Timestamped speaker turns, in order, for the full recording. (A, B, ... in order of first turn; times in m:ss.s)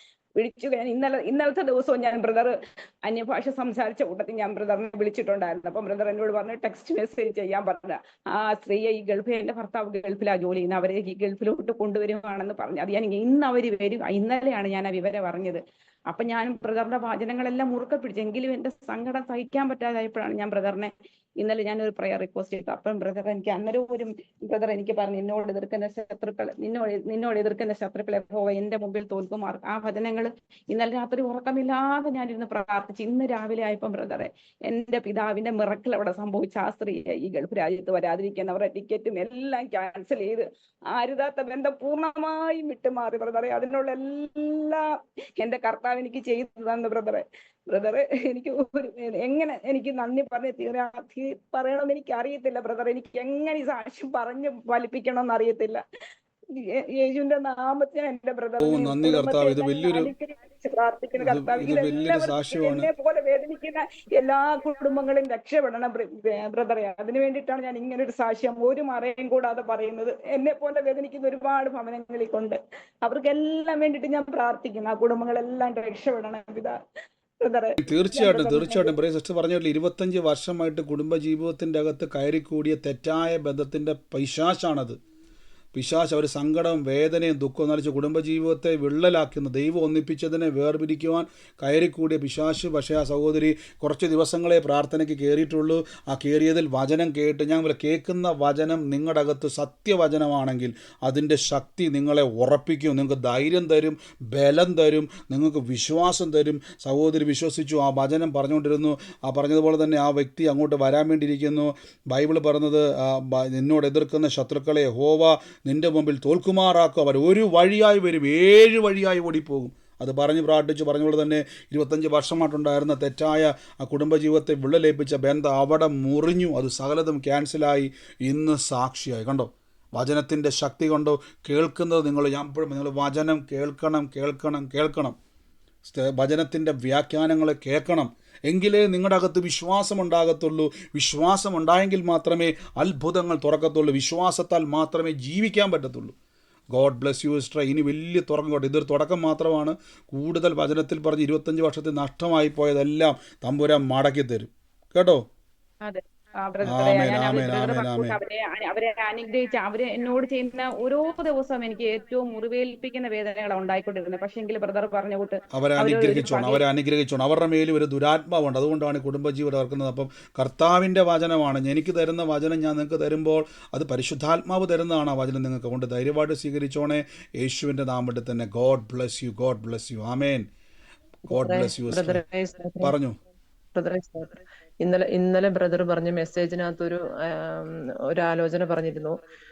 0:00.4-0:44.8 A
0:45.4-0:55.8 A
0:56.5-1:16.8 A
0:58.6-1:00.1 B
1:01.2-1:02.9 B
1:17.4-1:18.9 A
1:17.8-1:25.0 B
1:25.7-2:15.2 B
2:15.8-2:26.1 B
2:26.7-2:35.2 B
2:35.8-2:46.6 A
2:36.6-2:38.2 B
2:45.5-3:00.4 B
3:01.3-3:02.2 B
3:01.3-3:02.9 C
3:02.8-3:03.2 B
3:03.7-3:09.1 C